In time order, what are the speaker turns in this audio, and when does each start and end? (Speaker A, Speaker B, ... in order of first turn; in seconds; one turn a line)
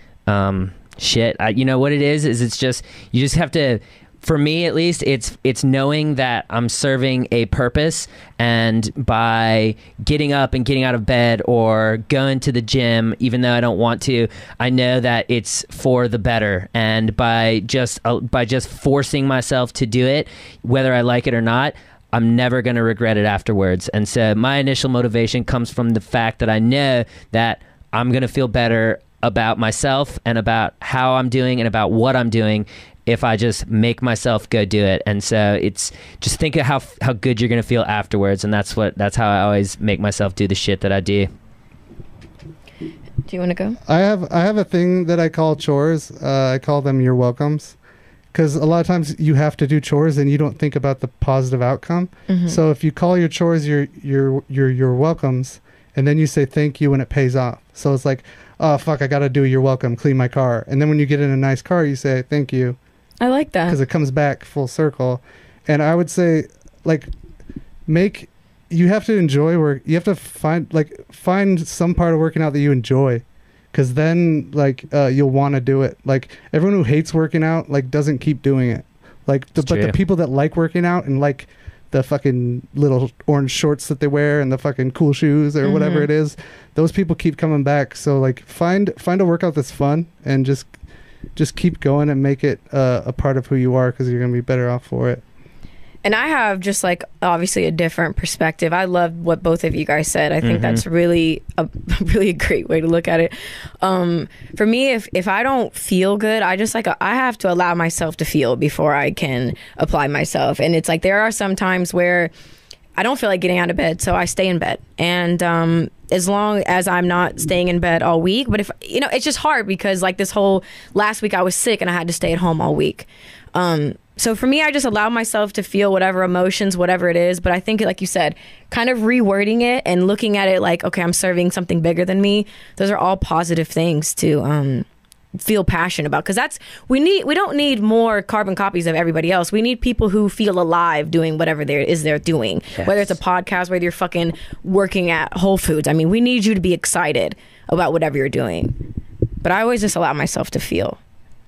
Speaker A: 0.3-41.3
Speaker B: 43.3-43.8
Speaker C: 43.9-47.8
Speaker C: 48.3-62.8
Speaker B: 52.3-52.6
Speaker B: 63.2-63.8
Speaker C: 63.7-67.1
Speaker C: 67.9-90.7
Speaker A: 79.6-80.0
Speaker B: 85.6-86.1
Speaker C: 91.4-95.2
Speaker B: 96.0-112.3
Speaker A: 100.4-100.8
Speaker B: 113.0-148.8
Speaker A: 142.8-143.2
Speaker B: 149.4-151.0